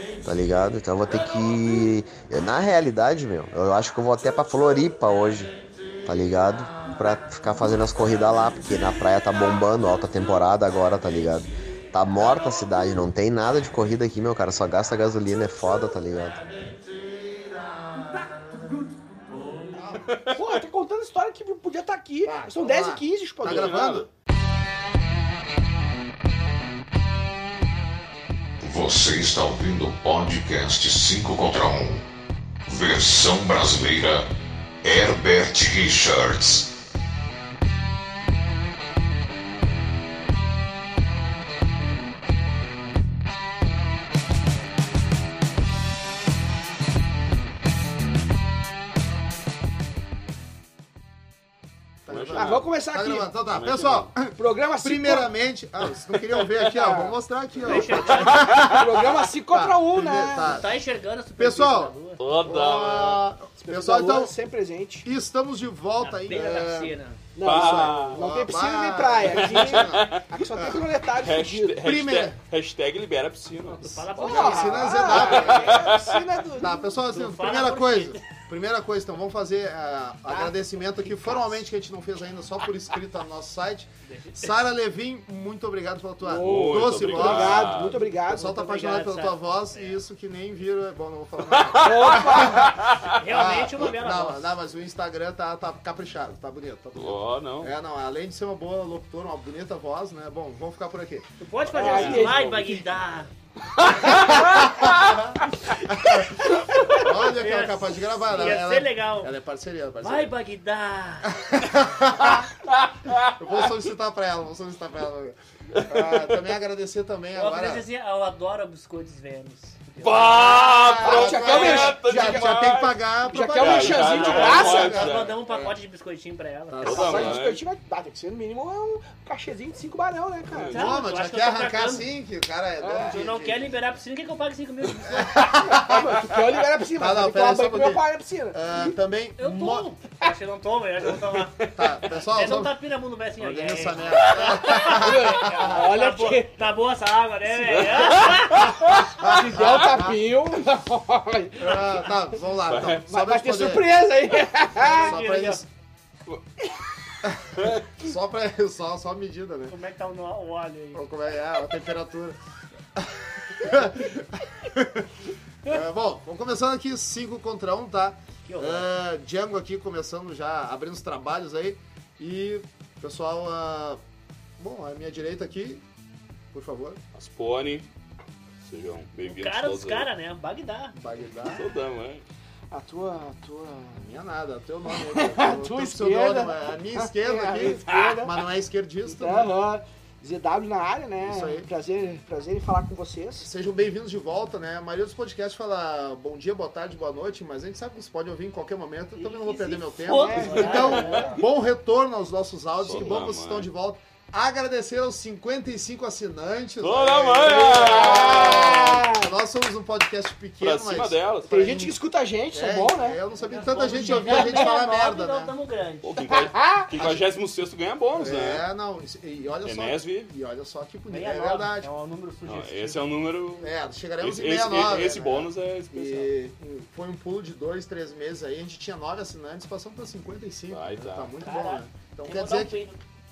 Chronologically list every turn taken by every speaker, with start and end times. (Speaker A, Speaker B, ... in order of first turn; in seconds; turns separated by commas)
Speaker A: 0.2-5.5, Speaker A: 6.0-16.5, Speaker B: 19.7-20.1, Speaker C: 20.1-20.6, Speaker D: 20.3-23.8, Speaker B: 22.2-24.1, Speaker C: 23.4-24.1, Speaker E: 28.6-32.0, Speaker E: 32.7-34.3, Speaker E: 34.8-36.7, Speaker B: 52.0-60.8, Speaker C: 52.1-52.7, Speaker D: 52.3-53.3, Speaker C: 53.5-54.1, Speaker D: 54.3-55.3, Speaker D: 56.6-57.1, Speaker F: 57.6-58.6, Speaker D: 57.7-60.6, Speaker C: 58.3-58.7, Speaker F: 60.4-62.2, Speaker B: 61.4-64.3, Speaker C: 62.2-63.2, Speaker D: 63.6-65.0, Speaker B: 65.0-70.8, Speaker F: 66.0-67.2, Speaker D: 67.3-71.8, Speaker C: 67.4-68.2, Speaker C: 69.2-70.2, Speaker C: 71.1-74.1, Speaker B: 71.8-72.4, Speaker F: 73.6-75.3, Speaker D: 74.2-77.0, Speaker B: 74.2-76.0, Speaker C: 75.1-76.2, Speaker B: 76.5-101.2, Speaker F: 77.1-78.2, Speaker D: 80.3-81.6, Speaker F: 84.0-84.6, Speaker D: 86.2-88.7, Speaker C: 86.3-88.0, Speaker F: 88.5-90.0, Speaker C: 91.5-93.2, Speaker D: 91.8-92.7, Speaker F: 93.1-94.4, Speaker C: 97.0-97.7, Speaker F: 101.4-103.3, Speaker D: 101.7-102.8, Speaker C: 101.8-102.4, Speaker C: 103.8-105.2, Speaker B: 104.0-110.3, Speaker F: 107.3-109.3, Speaker F: 110.0-111.3, Speaker B: 111.2-112.5, Speaker C: 112.2-113.7, Speaker B: 113.2-117.8, Speaker C: 115.7-116.4, Speaker F: 117.3-120.3, Speaker C: 120.0-125.4, Speaker B: 120.0-125.8, Speaker D: 120.9-122.7, Speaker D: 123.3-125.0, Speaker F: 124.0-127.1, Speaker B: 126.7-127.4, Speaker C: 126.8-127.6, Speaker D: 126.9-130.8, Speaker B: 130.6-133.7, Speaker F: 130.7-132.1, Speaker D: 132.8-133.2, Speaker F: 133.0-135.6, Speaker B: 135.0-136.3, Speaker D: 135.7-138.6, Speaker B: 136.8-139.9, Speaker F: 139.4-148.8, Speaker B: 141.7-142.8, Speaker B: 143.4-145.9, Speaker D: 144.6-146.5, Speaker D: 147.8-152.1, Speaker B: 148.8-150.2, Speaker B: 151.6-153.9, Speaker C: 152.6-153.0, Speaker D: 153.1-155.1, Speaker F: 154.8-155.6, Speaker B: 154.8-155.7, Speaker C: 156.3-156.7, Speaker B: 157.2-159.8, Speaker C: 157.4-158.0, Speaker F: 159.7-161.1, Speaker B: 160.9-162.4, Speaker B: 162.9-174.0, Speaker F: 168.4-168.9, Speaker B: 174.6-175.8, Speaker B: 176.5-177.0, Speaker C: 177.1-177.8, Speaker C: 178.6-180.1, Speaker F: 179.3-180.9, Speaker B: 180.9-181.7, Speaker C: 181.4-182.2, Speaker D: 182.7-184.1, Speaker B: 183.9-189.5, Speaker D: 184.9-188.3, Speaker C: 187.9-188.2, Speaker D: 189.1-193.5, Speaker B: 191.2-191.7, Speaker B: 193.4-212.0, Speaker F: 199.2-201.5, Speaker D: 200.1-201.4, Speaker C: 202.8-203.7, Speaker C: 206.8-208.9, Speaker D: 207.4-209.3, Speaker C: 210.6-211.7, Speaker D: 211.5-213.2, Speaker B: 212.5-215.5, Speaker F: 213.4-216.4, Speaker D: 214.0-214.7, Speaker C: 216.0-218.6, Speaker D: 216.3-216.9, Speaker B: 216.9-217.3, Speaker B: 218.2-221.9, Speaker C: 219.6-220.3, Speaker F: 221.1-223.1, Speaker C: 222.4-226.3, Speaker B: 223.6-232.8, Speaker C: 230.7-231.3, Speaker F: 231.4-233.0